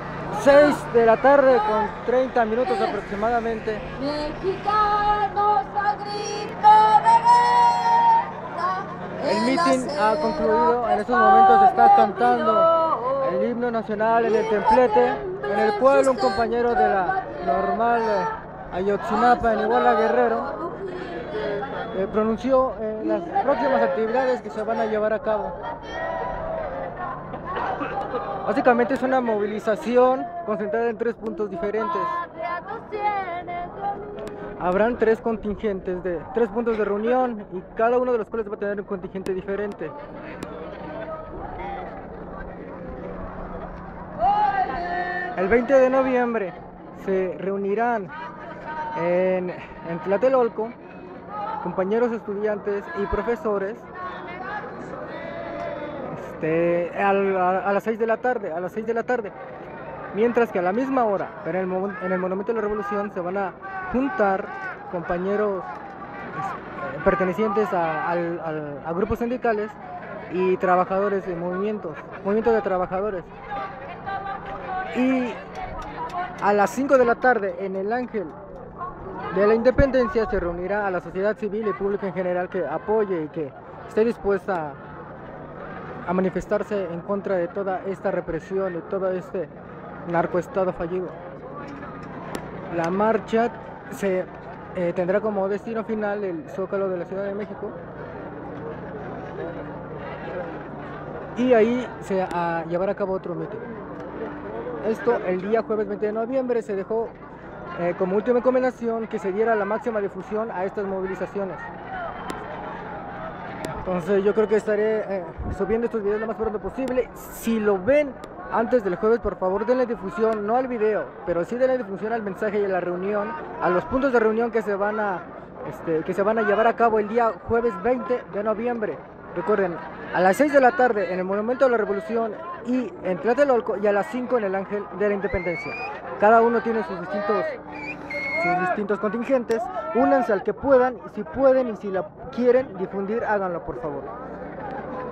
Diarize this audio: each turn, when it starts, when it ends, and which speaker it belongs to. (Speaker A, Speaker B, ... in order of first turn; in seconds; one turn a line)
Speaker A: 0.2-3.9
Speaker B: 3.9-10.9
Speaker A: 9.2-20.5
Speaker B: 12.7-13.2
Speaker B: 14.5-17.4
Speaker B: 20.5-21.8
Speaker A: 21.9-25.6
Speaker A: 28.4-32.2
Speaker B: 32.3-34.2
Speaker A: 34.6-40.0
Speaker A: 45.4-48.1
Speaker A: 49.0-50.8
Speaker A: 51.6-53.9
Speaker A: 56.1-59.4
Speaker A: 60.1-65.7
Speaker A: 66.3-69.8
Speaker A: 70.3-73.3
Speaker A: 74.9-75.4
Speaker A: 76.4-78.4
Speaker A: 79.3-84.8
Speaker A: 86.1-89.5
Speaker A: 90.1-91.2
Speaker A: 92.7-97.8
Speaker A: 101.4-103.6
Speaker A: 104.8-107.2
Speaker A: 107.7-111.7
Speaker A: 113.8-137.5
Speaker A: 138.4-144.1